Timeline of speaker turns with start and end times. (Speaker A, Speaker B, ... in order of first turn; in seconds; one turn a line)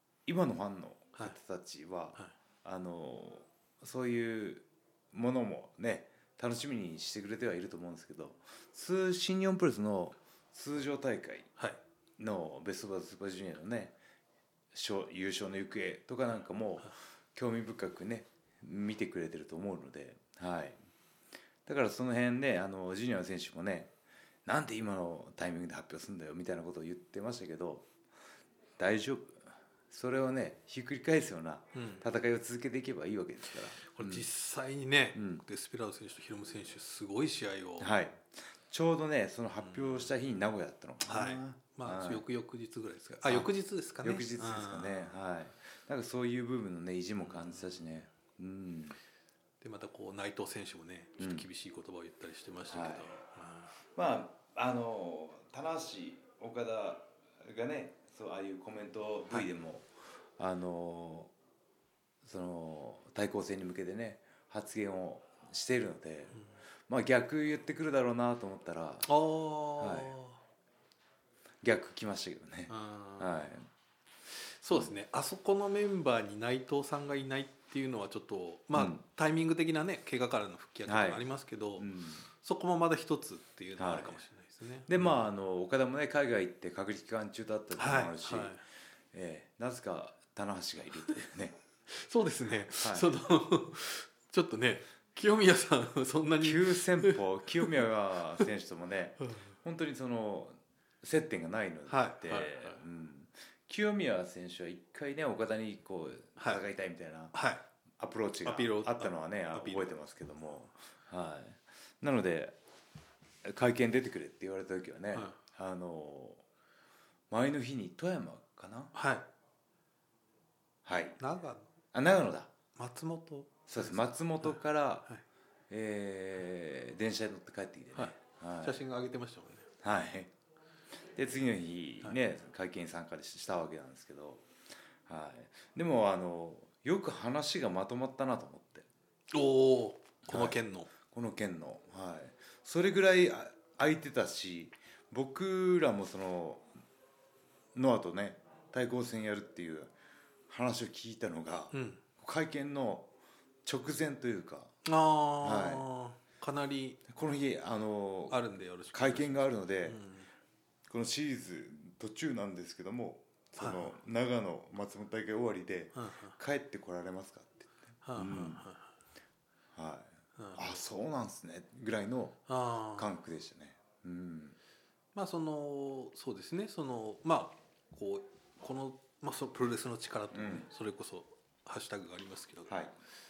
Speaker A: 0.3-11.5
Speaker A: 12.2-14.0
Speaker A: 14.7-20.8
Speaker A: 21.7-23.9
Speaker A: 24.5-27.9
Speaker A: 28.8-34.3
Speaker B: 31.8-32.0
Speaker B: 33.8-37.9
Speaker A: 35.1-35.4
Speaker A: 37.8-42.2
Speaker B: 41.0-45.2
Speaker A: 44.0-49.0
Speaker B: 49.6-53.7
Speaker A: 51.2-51.5
Speaker A: 52.7-53.1
Speaker A: 54.0-61.3
Speaker A: 62.2-69.1
Speaker B: 69.1-70.4
Speaker A: 69.8-70.2
Speaker A: 71.6-73.7
Speaker B: 72.7-73.5
Speaker B: 74.6-85.3
Speaker A: 78.7-79.0
Speaker A: 80.9-81.2
Speaker A: 81.8-82.2
Speaker A: 83.8-84.2
Speaker A: 84.9-88.6
Speaker B: 87.8-88.6
Speaker A: 89.1-91.5
Speaker B: 91.9-97.7
Speaker A: 92.8-93.1
Speaker A: 96.4-107.3
Speaker B: 101.9-102.8
Speaker B: 107.3-107.6
Speaker A: 108.0-112.6
Speaker B: 108.5-109.9
Speaker A: 113.4-116.4
Speaker A: 117.3-118.9
Speaker B: 118.9-119.3
Speaker A: 120.8-121.2
Speaker B: 121.2-121.7
Speaker A: 121.9-122.5
Speaker B: 122.8-125.2
Speaker A: 123.7-125.1
Speaker A: 125.7-128.8
Speaker B: 128.0-129.7
Speaker A: 129.8-130.3
Speaker A: 131.2-134.4
Speaker A: 135.1-138.9
Speaker B: 139.3-140.9
Speaker A: 140.3-146.7
Speaker A: 147.8-149.9
Speaker A: 150.5-153.1
Speaker B: 151.7-152.0
Speaker A: 153.7-154.7
Speaker B: 154.8-157.0
Speaker A: 155.4-155.9
Speaker A: 157.1-158.4
Speaker B: 158.3-160.3
Speaker A: 158.9-160.0
Speaker A: 160.9-168.7
Speaker B: 163.6-163.9
Speaker B: 165.9-166.4
Speaker B: 168.0-168.9
Speaker A: 169.7-172.4
Speaker B: 170.4-170.8
Speaker B: 172.5-173.1
Speaker A: 173.0-174.6
Speaker B: 175.2-182.7
Speaker A: 180.3-180.7
Speaker A: 182.7-182.9